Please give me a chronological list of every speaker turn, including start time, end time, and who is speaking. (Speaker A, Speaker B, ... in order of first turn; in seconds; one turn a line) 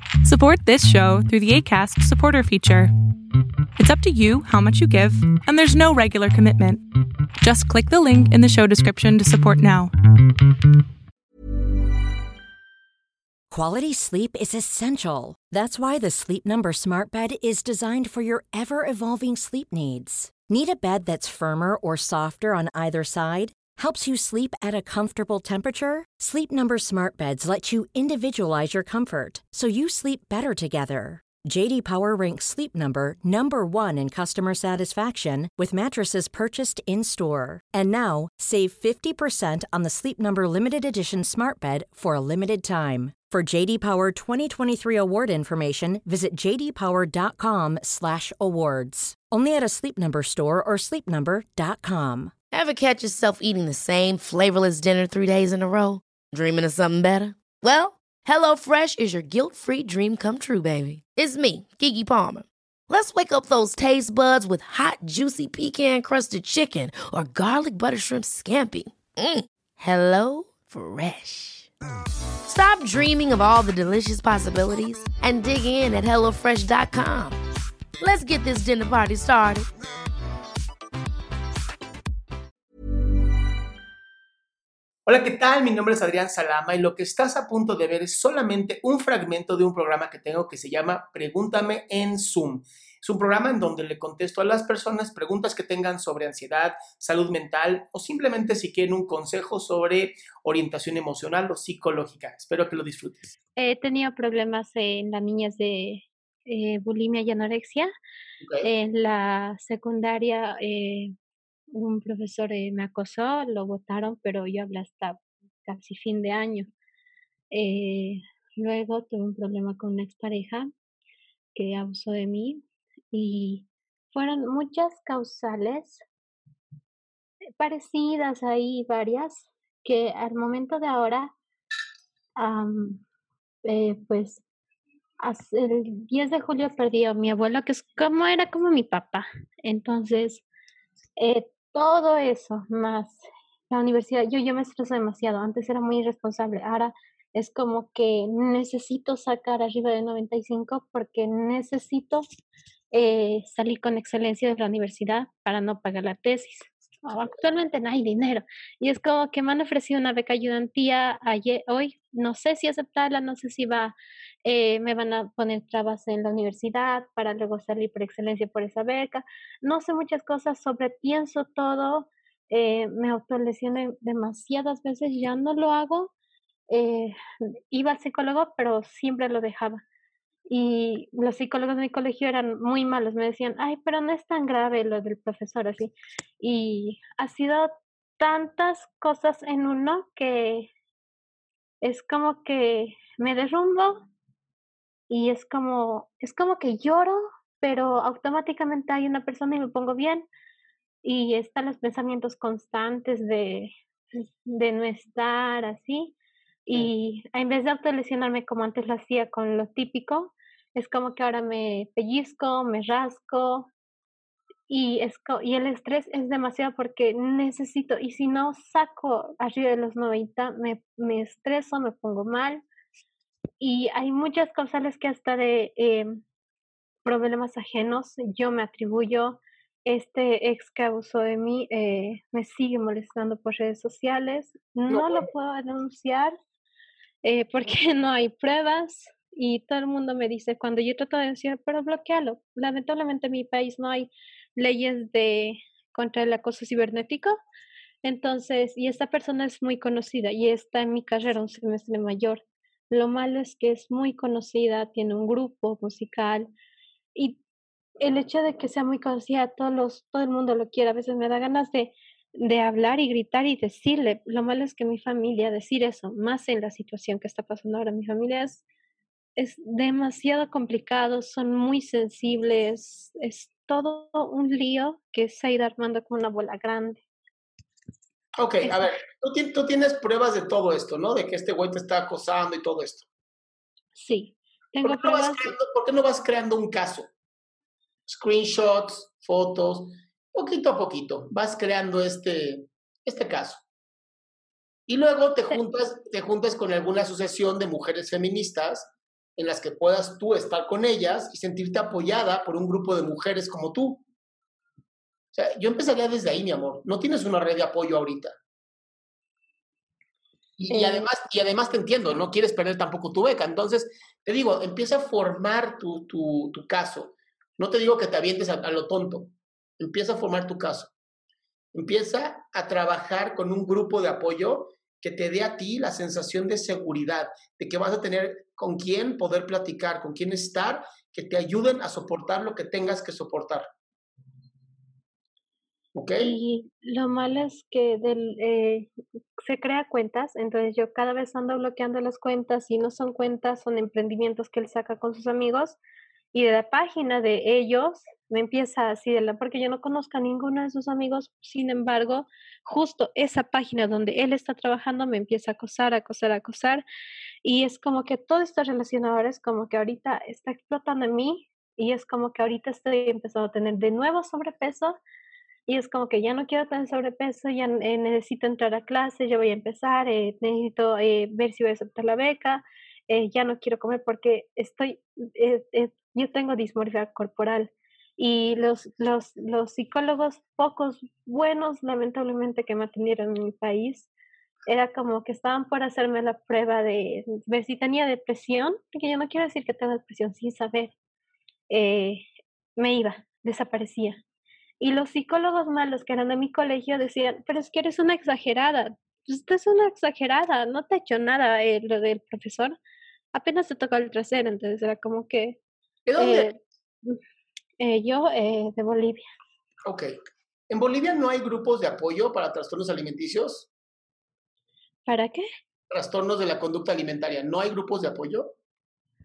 Speaker A: 0.2-2.9
Speaker A: 3.8-6.8
Speaker A: 7.4-9.9
Speaker B: 13.5-52.3
Speaker C: 52.5-71.7
Speaker C: 72.5-77.4
Speaker C: 78.0-79.7
Speaker D: 85.0-103.3
Speaker E: 103.5-107.9
Speaker D: 108.4-108.7
Speaker E: 108.6-111.1
Speaker E: 111.7-116.7
Speaker E: 117.5-120.7
Speaker E: 121.5-126.0
Speaker E: 127.6-131.3
Speaker E: 132.4-133.0
Speaker E: 133.6-134.4
Speaker E: 135.2-140.4
Speaker E: 141.2-152.2
Speaker E: 152.9-176.1
Speaker E: 176.7-177.2
Speaker E: 177.7-179.8
Speaker E: 180.5-190.7
Speaker E: 191.8-194.1
Speaker E: 195.1-200.2
Speaker E: 201.0-206.1
Speaker E: 206.7-213.7
Speaker E: 214.7-222.6
Speaker E: 223.6-226.1
Speaker E: 227.0-236.3
Speaker D: 234.9-235.2
Speaker E: 237.2-247.4
Speaker E: 248.0-256.5
Speaker E: 257.1-257.4
Speaker E: 258.0-268.6
Speaker E: 269.4-277.0
Speaker D: 278.4-283.1
Speaker E: 278.6-278.9
Speaker E: 283.9-285.5
Speaker D: 284.8-287.1
Speaker D: 288.1-293.6
Speaker D: 294.9-304.0
Speaker D: 305.3-308.4
Speaker D: 310.6-320.9
Speaker E: 310.7-311.1
Speaker D: 321.7-333.7
Speaker D: 335.9-336.3
Speaker E: 336.2-345.8
Speaker E: 346.3-356.8
Speaker E: 357.4-365.0
Speaker E: 365.7-384.1
Speaker E: 384.7-390.9
Speaker E: 391.7-392.2
Speaker E: 392.8-394.2
Speaker E: 394.8-402.8
Speaker E: 403.3-405.6
Speaker D: 406.1-406.5
Speaker E: 406.2-407.1
Speaker E: 407.8-409.2
Speaker D: 409.9-410.1
Speaker D: 410.7-413.7
Speaker E: 415.1-415.4
Speaker D: 415.9-418.5